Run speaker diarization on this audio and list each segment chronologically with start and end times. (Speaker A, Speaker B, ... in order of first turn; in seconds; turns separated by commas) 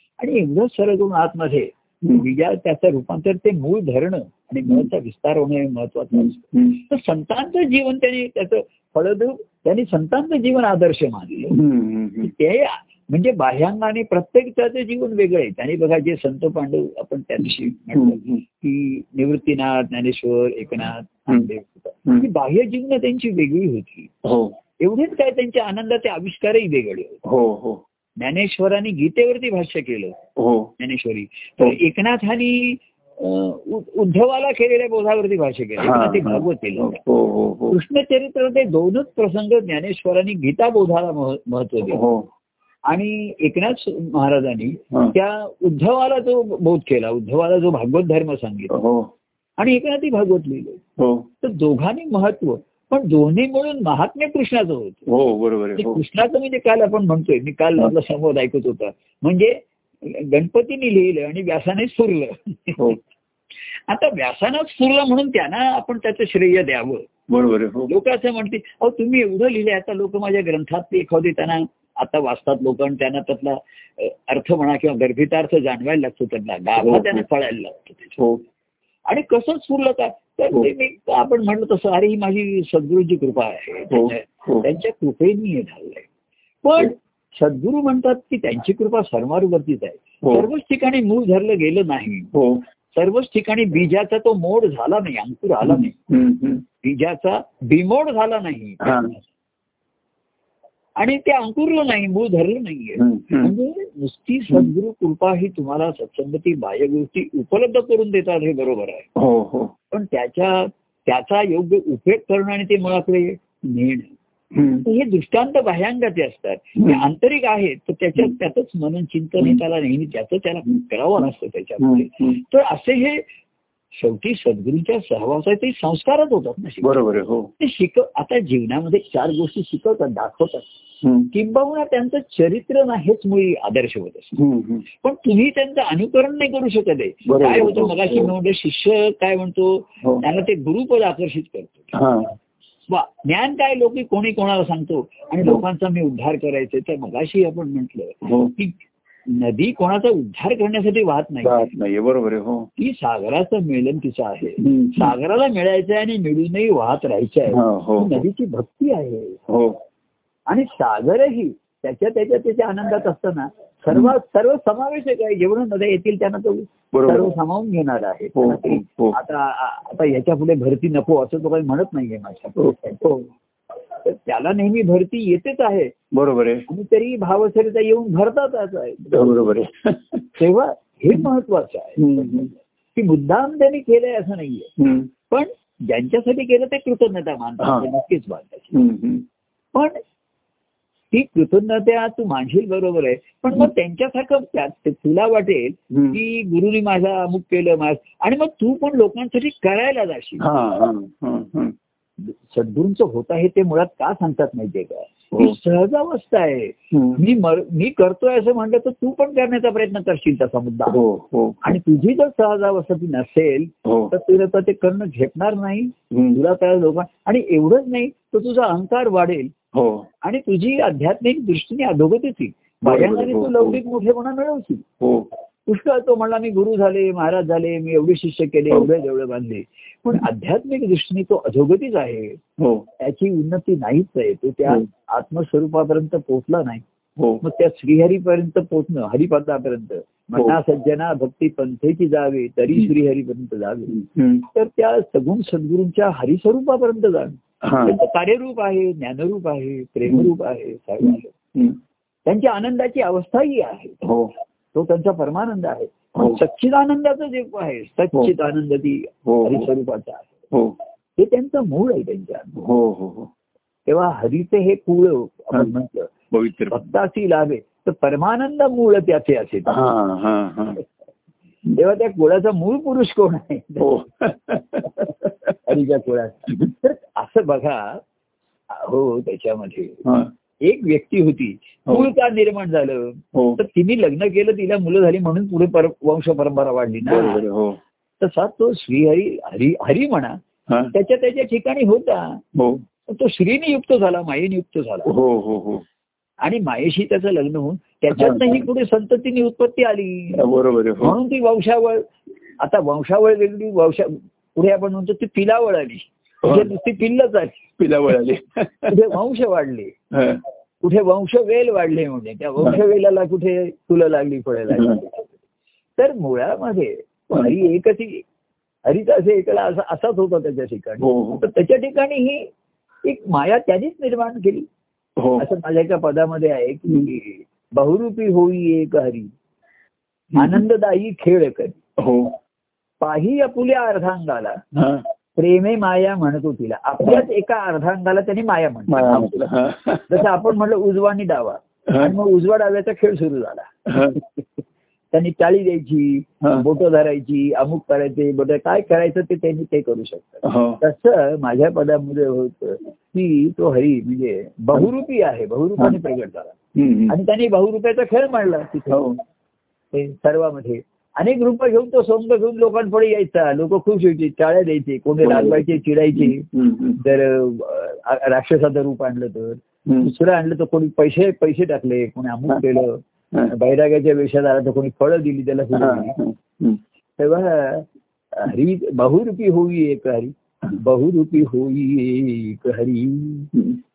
Speaker A: 0.2-11.6, Speaker B: 6.1-6.8, Speaker B: 11.5-12.3, Speaker A: 12.2-24.1, Speaker B: 17.9-18.4, Speaker B: 24.2-24.6, Speaker A: 24.8-27.2, Speaker B: 27.2-27.8, Speaker A: 28.2-30.2, Speaker B: 30.4-30.7, Speaker A: 30.8-37.0, Speaker B: 35.8-37.8, Speaker A: 37.7-42.0, Speaker B: 41.9-42.3, Speaker A: 42.9-48.7, Speaker B: 48.7-49.1, Speaker A: 49.6-50.8, Speaker B: 51.0-51.3, Speaker A: 51.4-55.0, Speaker B: 55.1-56.0, Speaker A: 55.8-63.0, Speaker A: 63.9-67.1, Speaker B: 67.3-67.9, Speaker A: 67.9-78.2, Speaker B: 76.8-77.2, Speaker B: 78.2-78.4, Speaker A: 79.1-86.1, Speaker B: 83.9-84.7, Speaker A: 86.6-92.3, Speaker B: 90.2-90.5, Speaker B: 92.3-92.6, Speaker A: 93.0-95.9, Speaker B: 95.7-96.6, Speaker A: 96.8-99.2, Speaker B: 98.8-99.1, Speaker A: 101.0-109.1, Speaker B: 103.0-103.5, Speaker B: 109.2-109.7, Speaker A: 109.9-114.1, Speaker B: 114.5-114.9, Speaker A: 114.8-123.2, Speaker B: 116.8-117.0, Speaker B: 121.8-122.4, Speaker A: 124.0-126.9, Speaker B: 126.8-127.5, Speaker A: 127.6-130.7, Speaker B: 131.0-131.3, Speaker A: 131.3-134.3, Speaker B: 134.3-134.8, Speaker A: 135.0-141.9, Speaker B: 137.3-138.3, Speaker B: 141.9-142.3, Speaker A: 142.9-148.8, Speaker B: 148.2-148.5, Speaker A: 149.3-151.7, Speaker B: 151.4-152.7, Speaker A: 152.8-159.4, Speaker B: 154.6-155.1, Speaker B: 157.5-158.2, Speaker B: 159.5-159.8, Speaker A: 160.5-173.2, Speaker B: 166.9-167.3, Speaker B: 168.4-169.2, Speaker B: 172.6-173.1, Speaker A: 174.0-175.9, Speaker B: 176.1-176.6, Speaker A: 176.7-179.5, Speaker B: 179.1-180.4, Speaker A: 180.4-184.7, Speaker B: 182.0-182.5, Speaker B: 184.8-185.1, Speaker A: 185.3-188.7, Speaker B: 187.6-187.9, Speaker B: 188.7-189.2, Speaker A: 191.1-200.4, Speaker B: 195.9-196.2, Speaker B: 200.4-201.8, Speaker A: 202.2-211.0, Speaker B: 206.9-207.2, Speaker B: 210.9-211.8, Speaker A: 211.6-219.5, Speaker B: 213.8-214.1, Speaker B: 216.1-216.4, Speaker B: 219.7-220.1, Speaker A: 220.2-224.8, Speaker B: 222.8-223.8, Speaker B: 225.0-225.3, Speaker A: 225.7-232.4, Speaker B: 232.6-232.9, Speaker A: 233.0-236.8, Speaker B: 237.2-237.4, Speaker A: 237.4-243.9, Speaker B: 243.9-244.4, Speaker A: 244.5-251.3, Speaker B: 247.6-248.0, Speaker B: 251.0-251.8, Speaker A: 252.3-254.0, Speaker B: 254.0-254.3, Speaker A: 254.7-260.4, Speaker B: 256.2-256.4, Speaker B: 259.3-259.7, Speaker A: 261.2-262.5, Speaker B: 262.6-263.3, Speaker A: 263.9-266.1, Speaker B: 266.3-266.8, Speaker A: 266.7-269.8, Speaker B: 269.7-270.8, Speaker A: 271.7-273.9, Speaker B: 273.8-275.6, Speaker A: 275.7-278.0, Speaker A: 278.7-280.0, Speaker B: 280.1-280.3, Speaker A: 280.6-287.4, Speaker B: 283.3-283.6, Speaker B: 287.1-287.8, Speaker A: 288.2-290.4, Speaker A: 290.9-292.4, Speaker B: 292.6-292.8, Speaker A: 293.1-295.1, Speaker B: 295.1-295.9, Speaker A: 296.4-300.4, Speaker B: 298.1-298.6, Speaker B: 300.4-301.2, Speaker A: 301.0-307.6, Speaker B: 306.4-306.7, Speaker B: 307.8-309.0, Speaker A: 308.9-309.9, Speaker B: 310.1-310.4, Speaker A: 310.8-315.3, Speaker B: 314.7-315.0, Speaker A: 316.0-318.2, Speaker A: 318.9-322.5, Speaker B: 321.0-321.4, Speaker A: 323.0-324.7, Speaker B: 325.2-325.5, Speaker A: 325.4-329.3, Speaker B: 330.3-330.6, Speaker A: 330.4-331.8, Speaker B: 332.0-332.4, Speaker A: 333.0-334.6, Speaker B: 334.7-335.0, Speaker A: 335.4-339.5, Speaker B: 338.9-340.3, Speaker A: 340.1-344.6, Speaker B: 341.9-342.1, Speaker B: 343.9-344.2, Speaker A: 345.1-356.6, Speaker B: 350.4-350.8, Speaker B: 356.8-357.1, Speaker A: 357.1-359.2, Speaker B: 358.9-359.2, Speaker A: 359.9-366.4, Speaker B: 365.2-367.0, Speaker A: 367.0-376.2, Speaker B: 369.9-370.1, Speaker B: 375.7-376.8, Speaker A: 377.2-383.5, Speaker B: 383.5-383.8